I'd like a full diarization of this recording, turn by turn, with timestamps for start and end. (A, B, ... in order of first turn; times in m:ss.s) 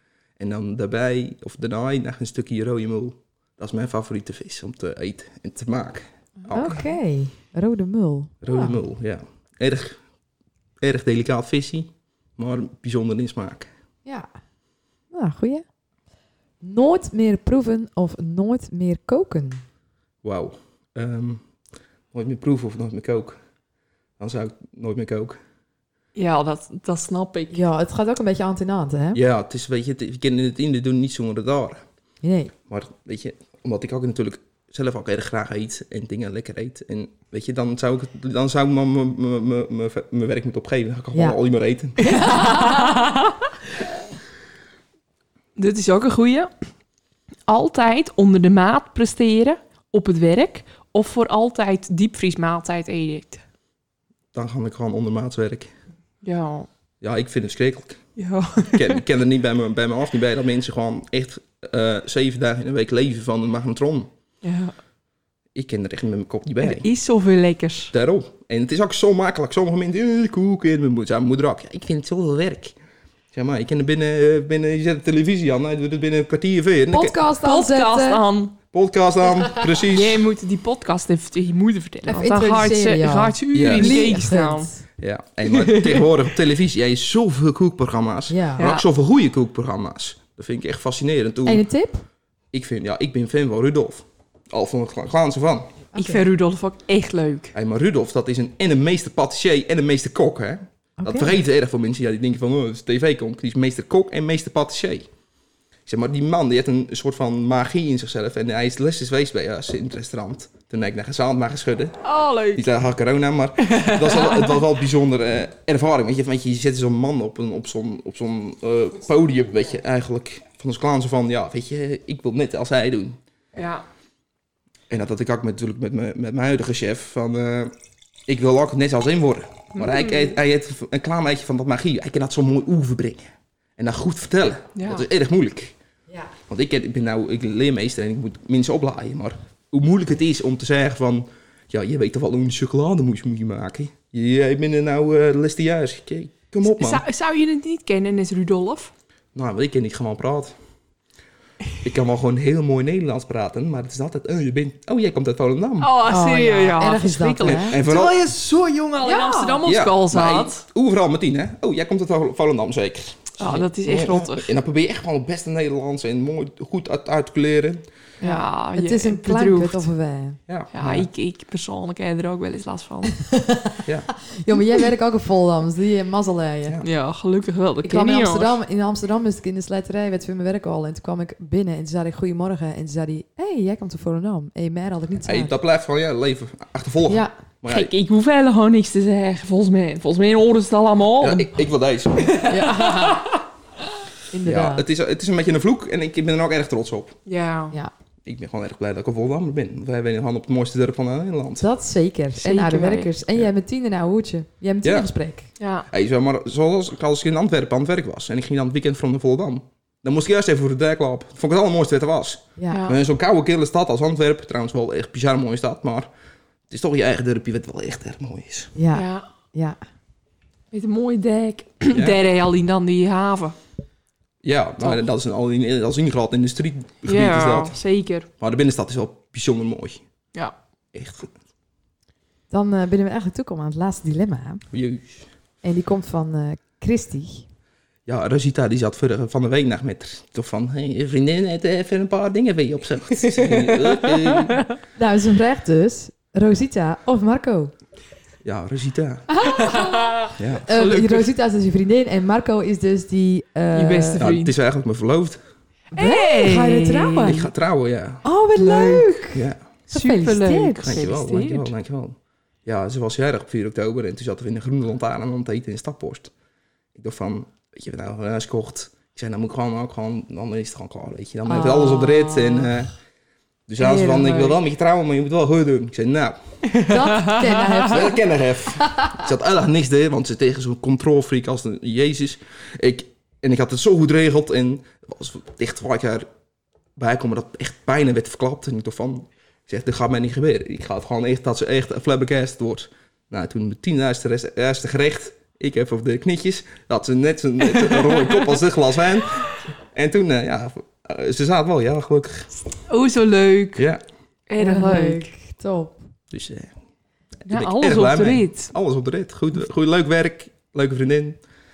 0:00.4-0:06.8 A
0:06.4-0:06.9 B
0:06.5-0:08.8 C
0:08.4-0:10.0 A
0:10.8-0:13.7 A
0:15.1-0:15.6 C
0:16.6-0:19.6 C
0:20.2-0:21.4 A
0:22.1-0:23.4 A
0:24.2-0:25.4 A
0:26.1-0:27.6 B
0:27.5-0:29.2 C
0:29.1-0:31.8 A
0:32.2-0:32.5 C
0:32.7-0:42.0 A
0:42.0-0:43.2 B
0:42.0-0:42.6 C
0:45.6-0:46.5 B
0:47.5-0:53.4 B
0:54.3-0:55.7 A
0:56.2-0:56.7 B
0:57.0-0:58.0 A
0:58.2-0:59.0 B
0:58.7-1:04.1 A
1:04.4-1:04.7 B
1:05.5-1:06.9 A
1:06.6-1:07.9 B
1:07.9-1:12.7 A
1:13.3-1:17.2 A
1:16.9-1:18.2 C
1:17.4-1:18.5 B
1:18.7-1:20.2 A
1:19.8-1:24.7 B
1:22.1-1:24.8 C
1:23.5-1:24.0 A
1:25.0-1:31.6 A
1:25.5-1:26.1 B
1:28.3-1:28.7 C
1:28.6-1:28.8 B
1:31.4-1:32.0 C
1:32.5-1:35.8 A
1:35.9-1:36.2 C
1:35.9-1:37.5 B
1:37.5-1:45.1 A
1:41.0-1:41.4 C
1:45.8-1:52.0 A
1:52.0-1:52.6 B
1:52.5-2:03.2 A
1:53.6-1:54.5 B
2:03.6-2:03.8 B
2:04.9-2:07.7 A
2:08.3-2:15.7 A
2:09.8-2:10.3 B
2:14.8-2:15.0 B
2:16.5-2:27.0 A
2:26.6-2:28.9 B
2:29.3-2:30.5 A
2:31.8-2:35.9 A
2:35.8-2:40.6 B
2:36.0-2:37.8 C
2:37.4-2:38.3 A
2:39.0-2:39.6 C
2:39.6-2:47.8 A
2:43.4-2:44.5 B
2:48.2-2:49.9 B
2:48.2-2:50.4 C
2:50.5-2:51.1 A
2:50.7-2:53.2 B
2:53.2-2:56.8 C
2:56.8-2:58.6 B
2:57.8-3:05.6 C
3:05.2-3:07.9 A
3:07.1-3:07.3 C
3:07.6-3:11.6 B
3:11.2-3:12.5 A
3:12.2-3:13.3 B
3:12.4-3:13.3 C
3:14.3-3:14.8 C
3:14.4-3:17.2 A
3:17.2-3:17.7 B
3:18.2-3:21.6 A
3:21.6-3:25.5 C
3:22.4-3:23.1 B
3:24.8-3:25.1 A
3:25.6-3:25.9 B
3:25.9-3:36.1 A
3:32.6-3:32.9 C
3:32.7-3:33.0 B
3:36.7-3:38.7 A
3:38.7-3:39.8 C
3:38.9-3:39.2 B
3:40.7-3:43.6 B
3:41.9-3:42.2 A
3:44.4-3:47.8 A
3:47.1-3:48.3 B
3:48.4-3:50.0 A
3:50.9-3:51.3 A
3:52.5-3:54.6 C
3:54.7-3:55.2 A
3:55.6-3:57.4 C
3:58.1-4:04.6 A
4:03.4-4:04.7 B
4:05.0-4:07.7 C
4:08.4-4:09.3 A
4:09.3-4:14.2 C
4:09.5-4:11.3 B
4:10.4-4:10.7 A
4:13.7-4:14.5 B
4:14.2-4:15.4 A
4:15.9-4:17.5 C
4:16.0-4:17.4 B
4:17.2-4:18.2 A
4:18.2-4:21.0 C
4:18.6-4:19.0 B
4:19.3-4:19.6 A
4:19.9-4:21.7 B
4:20.8-4:26.3 A
4:26.9-4:32.9 A
4:31.4-4:32.8 C
4:33.7-4:36.4 A
4:33.8-4:34.6 B
4:36.8-4:37.8 B
4:36.8-4:38.2 C
4:37.9-4:46.2 A
4:38.7-4:39.2 C
4:47.0-5:02.5 A
5:02.9-5:03.9 B
5:03.8-5:04.0 A
5:04.5-5:05.3 B
5:04.6-5:06.0 C
5:06.3-5:06.7 A
5:07.4-5:11.4 A
5:07.5-5:08.7 B